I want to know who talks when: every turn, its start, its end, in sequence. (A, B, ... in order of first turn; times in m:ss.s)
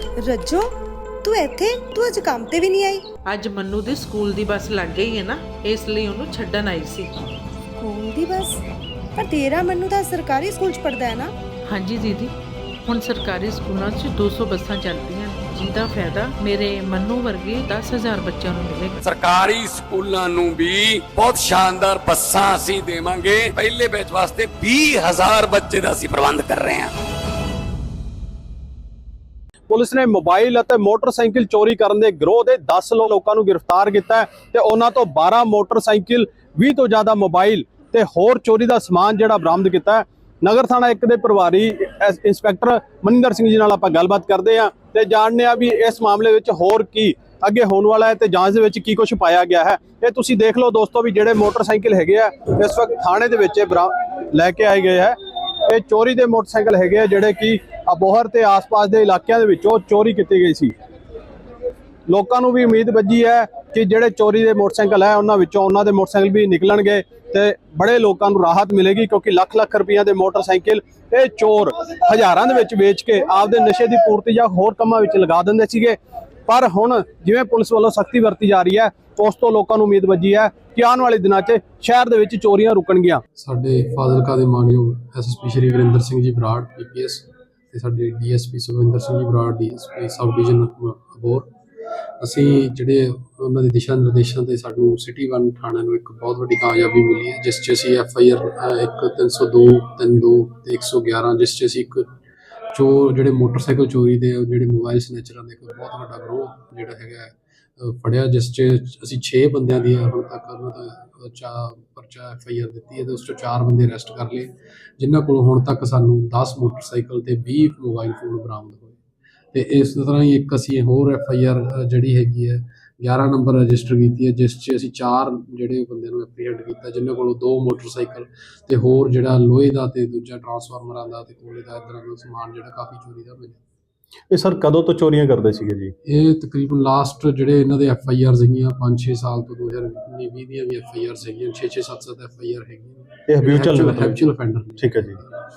0:00.2-0:00.7 A
0:01.2-0:03.0 A
0:03.3-0:07.1 B
0:07.8-0:08.6 A
0:09.2-0:11.3 A
0:11.7-0:12.3 B
0:12.9-0:19.0 B
0:19.0-0:26.9 C
0:29.7-1:00.7 D
1:02.1-1:23.2 D
1:23.4-1:31.5 E
1:32.2-1:42.1 E
1:42.7-1:59.0 E
1:59.5-2:13.6 E
2:14.3-2:15.9 D
2:16.1-2:25.4 E
2:23.3-2:24.2 D
2:24.8-2:25.2 D